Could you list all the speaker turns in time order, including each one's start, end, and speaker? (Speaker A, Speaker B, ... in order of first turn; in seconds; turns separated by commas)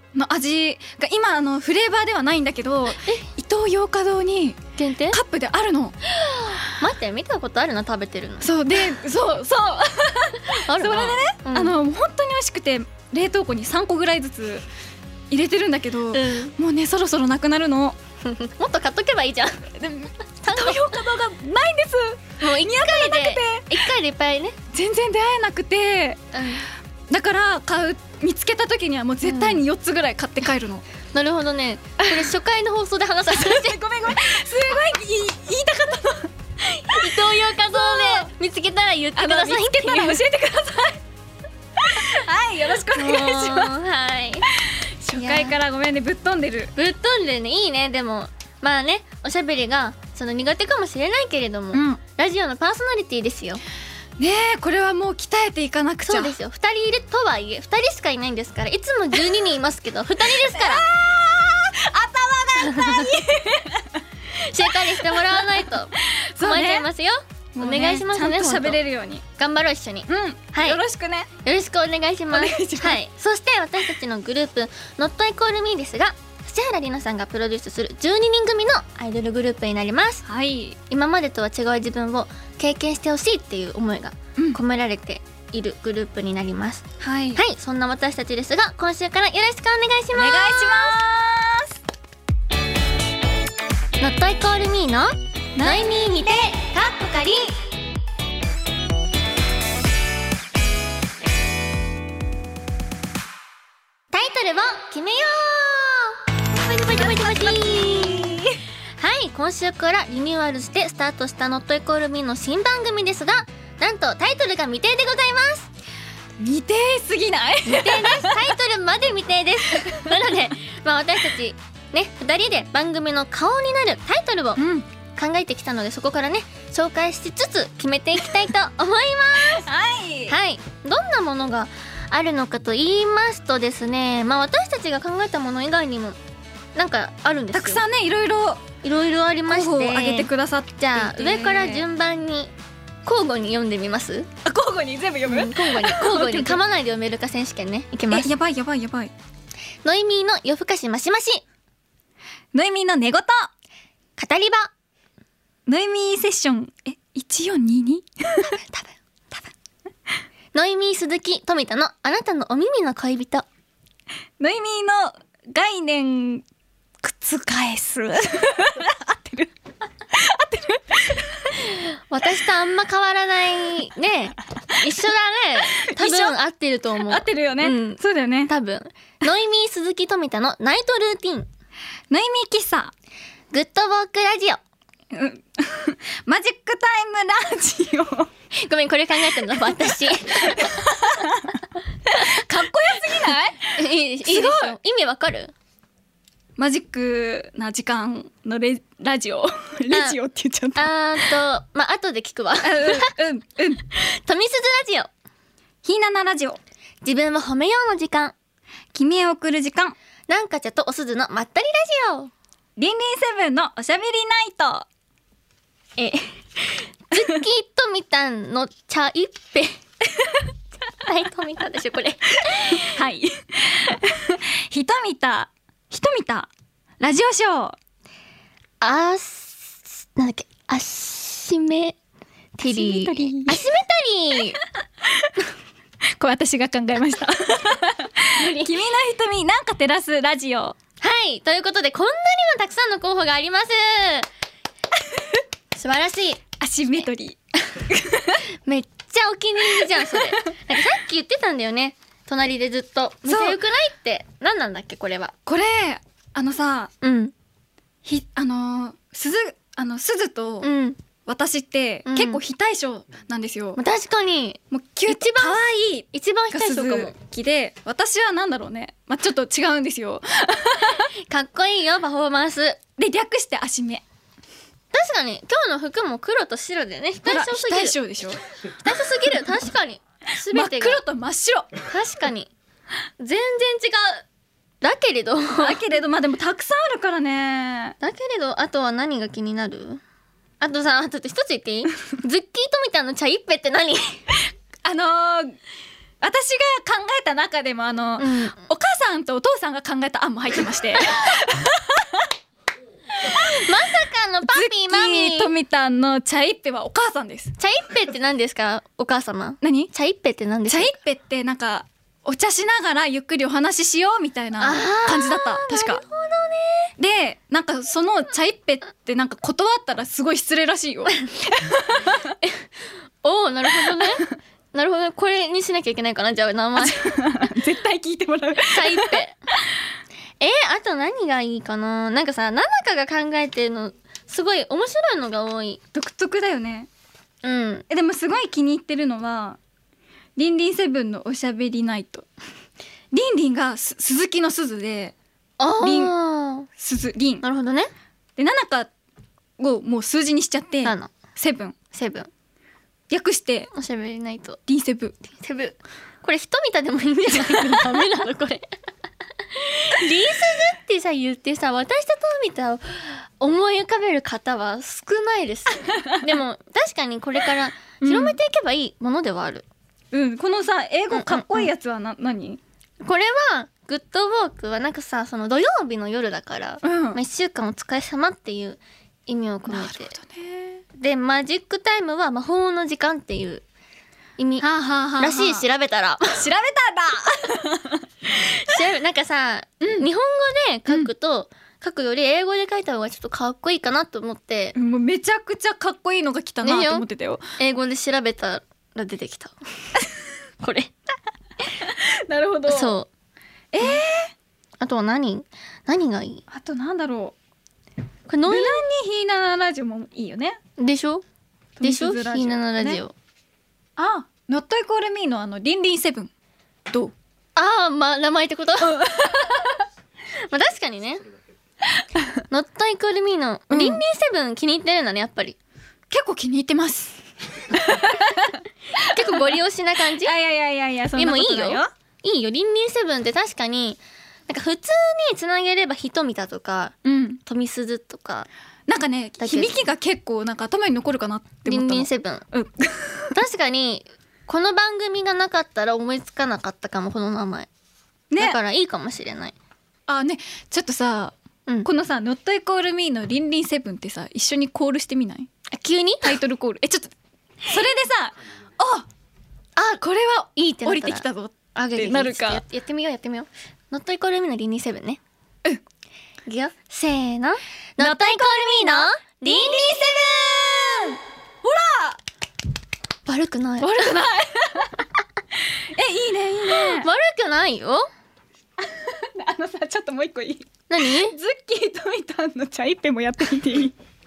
Speaker A: 0.1-4.6, Speaker B: 3.0-3.3, Speaker B: 4.8-5.2, Speaker A: 5.1-6.0, Speaker B: 6.2-8.5, Speaker A: 8.4-14.6, Speaker B: 10.4-11.8, Speaker A: 15.3-18.0, Speaker B: 16.1-16.6, Speaker B: 18.2-19.7, Speaker A: 19.7-23.8, Speaker B: 20.4-20.8, Speaker B: 22.4-24.6, Speaker A: 24.7-26.2, Speaker B: 26.3-26.6, Speaker A: 27.1-30.8, Speaker B: 29.2-29.6, Speaker B: 31.1-33.8, Speaker A: 33.3-38.3, Speaker B: 36.9-40.2, Speaker A: 39.1-41.0, Speaker A: 41.8-43.7, Speaker B: 42.9-44.5, Speaker A: 44.5-46.7, Speaker B: 45.2-45.5, Speaker B: 46.8-53.6, Speaker A: 51.7-52.0, Speaker A: 54.2-56.3, Speaker B: 56.0-60.8, Speaker A: 60.2-64.0, Speaker B: 62.6-63.1, Speaker B: 64.3-68.8, Speaker A: 64.6-66.9, Speaker A: 67.5-69.2, Speaker B: 69.4-70.8, Speaker A: 70.1-71.3, Speaker B: 71.4-80.2, Speaker A: 72.3-73.0, Speaker A: 80.2-80.8, Speaker B: 80.9-91.0, Speaker A: 87.0-87.4, Speaker A: 90.1-91.8, Speaker B: 94.0-97.6, Speaker A: 95.5-95.9, Speaker B: 104.1-108.3, Speaker A: 106.7-108.6, Speaker B: 109.0-115.7, Speaker A: 116.4-118.4, Speaker B: 117.7-124.6, Speaker A: 119.8-120.1, Speaker A: 124.6-124.8, Speaker B: 125.1-129.7, Speaker A: 129.6-130.3, Speaker B: 130.3-136.2, Speaker B: 136.8-137.8, Speaker A: 137.5-138.6, Speaker B: 138.8-142.5, Speaker A: 139.5-141.8, Speaker B: 143.0-144.3, Speaker A: 144.4-146.6, Speaker B: 145.2-148.3, Speaker A: 148.1-149.1, Speaker B: 149.8-151.4, Speaker A: 152.5-153.5, Speaker B: 154.2-154.7, Speaker A: 155.7-158.5, Speaker B: 158.4-159.0, Speaker B: 160.5-163.4, Speaker A: 164.4-166.4, Speaker A: 167.0-169.5, Speaker A: 170.1-171.6, Speaker B: 171.6-181.5, Speaker A: 175.8-176.3, Speaker A: 177.1-178.5, Speaker A: 182.1-182.9, Speaker B: 183.5-184.6, Speaker A: 185.1-188.3, Speaker B: 188.6-190.7, Speaker A: 190.5-191.5, Speaker A: 192.1-194.8, Speaker B: 193.7-195.5, Speaker A: 196.6-201.2, Speaker B: 199.9-200.2, Speaker B: 200.8-203.1, Speaker A: 202.6-203.8, Speaker B: 203.9-205.1, Speaker A: 205.8-206.6, Speaker B: 207.0-208.3, Speaker A: 208.9-209.9, Speaker B: 210.3-212.3, Speaker A: 212.8-214.9, Speaker B: 216.0-219.8, Speaker B: 221.0-222.9, Speaker A: 222.5-227.8, Speaker B: 228.8-232.0, Speaker B: 232.6-234.6, Speaker A: 232.7-233.6, Speaker A: 236.2-240.8, Speaker B: 238.3-238.8, Speaker B: 241.0-244.3, Speaker B: 245.8-246.4, Speaker A: 246.6-248.4, Speaker B: 248.6-255.3, Speaker A: 249.6-250.5, Speaker A: 253.2-253.6, Speaker A: 255.4-256.9, Speaker B: 257.0-257.3, Speaker A: 258.0-260.7, Speaker B: 260.6-261.0, Speaker A: 261.2-263.8, Speaker B: 262.0-262.4, Speaker B: 263.8-267.1, Speaker A: 264.7-271.1, Speaker B: 271.3-272.8, Speaker A: 273.0-274.0, Speaker B: 274.9-278.0, Speaker A: 277.2-278.4, Speaker B: 278.8-281.0, Speaker A: 280.4-281.7, Speaker B: 281.9-282.5, Speaker B: 283.2-284.2, Speaker B: 284.8-285.8, Speaker A: 285.5-287.9, Speaker B: 288.0-290.0, Speaker B: 290.6-294.2, Speaker A: 294.8-295.6, Speaker A: 296.2-302.3, Speaker B: 298.2-298.6, Speaker B: 303.2-305.5, Speaker A: 304.5-307.5, Speaker B: 307.6-310.9, Speaker A: 309.6-309.9, Speaker A: 310.7-316.0, Speaker B: 314.6-316.9, Speaker A: 317.0-322.4, Speaker B: 323.2-327.0, Speaker A: 323.8-324.3, Speaker A: 326.8-329.2, Speaker B: 328.7-329.3, Speaker B: 330.4-335.8, Speaker A: 335.9-336.9, Speaker B: 337.4-337.9, Speaker A: 337.9-339.6, Speaker A: 340.4-342.3, Speaker A: 343.1-345.1, Speaker B: 345.6-346.7, Speaker A: 345.8-346.1, Speaker A: 346.8-347.4, Speaker B: 347.4-347.9, Speaker A: 348.4-348.9, Speaker A: 349.6-351.7, Speaker B: 350.8-351.1, Speaker B: 351.9-352.3, Speaker A: 353.1-353.7, Speaker B: 353.7-354.6, Speaker A: 354.7-355.2, Speaker B: 355.2-358.7, Speaker B: 359.5-369.6, Speaker A: 368.0-368.4, Speaker A: 370.1-372.6, Speaker B: 371.1-371.7, Speaker B: 373.0-380.1, Speaker A: 376.8-377.2, Speaker A: 379.7-380.8, Speaker B: 380.9-383.6, Speaker B: 384.4-384.7, Speaker A: 384.6-385.6, Speaker B: 385.2-386.4, Speaker A: 386.3-388.1, Speaker B: 388.3-394.7, Speaker A: 394.7-397.4, Speaker B: 396.6-397.1, Speaker B: 397.6-399.5, Speaker B: 400.6-400.9, Speaker A: 401.7-402.9, Speaker B: 402.7-403.1, Speaker A: 403.7-404.3, Speaker B: 404.8-406.4, Speaker A: 406.5-407.3, Speaker B: 408.3-408.8, Speaker A: 408.5-410.6, Speaker B: 410.8-411.2, Speaker A: 411.8-413.0, Speaker B: 411.8-413.1, Speaker A: 414.0-416.3, Speaker B: 417.6-419.6, Speaker A: 419.0-419.6, Speaker B: 420.5-421.2, Speaker B: 422.5-425.6, Speaker A: 423.7-424.0, Speaker A: 426.1-429.6, Speaker B: 429.0-430.3, Speaker A: 430.1-431.9, Speaker B: 431.1-438.5, Speaker A: 437.0-437.4, Speaker A: 438.9-443.3, Speaker B: 439.4-439.8, Speaker B: 441.6-442.4, Speaker B: 443.3-447.7, Speaker A: 448.3-448.6, Speaker B: 448.4-449.5, Speaker A: 450.1-451.3, Speaker A: 451.8-455.5, Speaker B: 455.7-456.4, Speaker A: 456.2-457.1, Speaker A: 457.6-459.1, Speaker A: 459.8-462.6, Speaker B: 460.6-465.2, Speaker B: 466.4-470.1, Speaker A: 468.0-472.2, Speaker B: 473.2-474.2, Speaker A: 473.8-475.1, Speaker A: 475.8-477.1, Speaker B: 476.7-478.1, Speaker A: 478.8-483.9, Speaker B: 480.9-481.4